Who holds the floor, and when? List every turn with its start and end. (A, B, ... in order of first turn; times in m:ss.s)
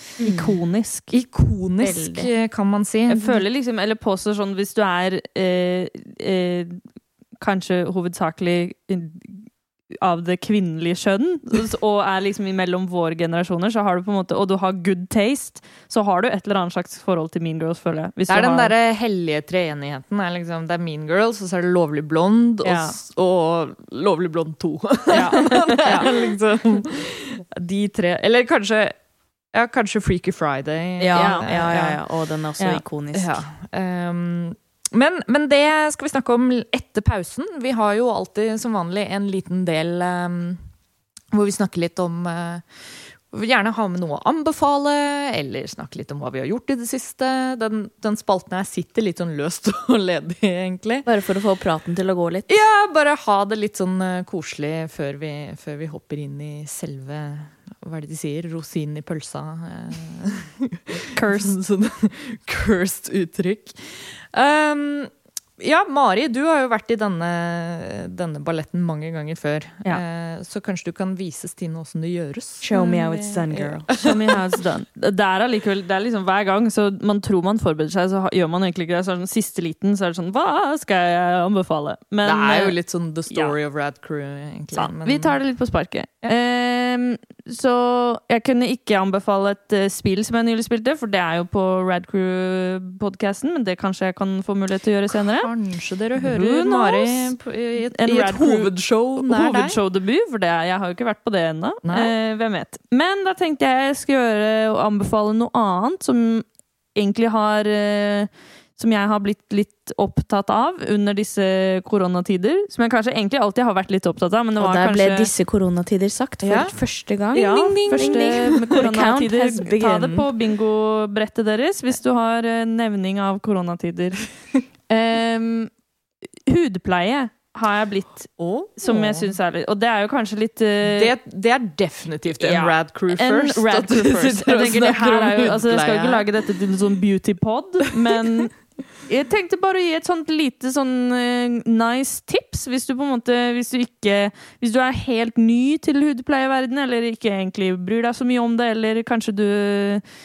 0:00.2-0:00.6 A
0:00.2-0:01.1 B
0:01.1-0:03.4 C
0:01.8-0:02.3 A
0:03.1-0:06.8 B
0:07.4-0:18.7 B
0:18.3-0:28.9 C
0:22.6-0:23.0 B
0:25.1-0:26.1 B
0:29.5-0:32.0 C
0:31.0-0:33.4 A
0:31.1-0:31.5 B
0:33.1-0:40.6 C
0:41.3-0:42.8 C
0:43.3-0:51.1 C
0:51.0-0:52.6 A
0:52.5-1:14.3 C
1:01.1-1:01.5 B
1:12.6-1:13.9 A
1:13.9-1:22.8 B
1:22.2-1:25.3 C
1:23.3-1:23.6 B
1:24.7-1:35.5 B
1:35.1-1:39.8 C
1:36.2-1:55.3 B
1:41.8-1:42.1 C
1:54.6-2:00.3 A
1:56.4-1:56.8 C
1:57.3-2:04.3 B
1:57.4-1:58.8 C
2:04.9-2:05.7 B
2:06.4-2:11.1 B
2:08.4-2:09.3 C
2:10.8-2:16.2 C
2:12.4-2:30.0 B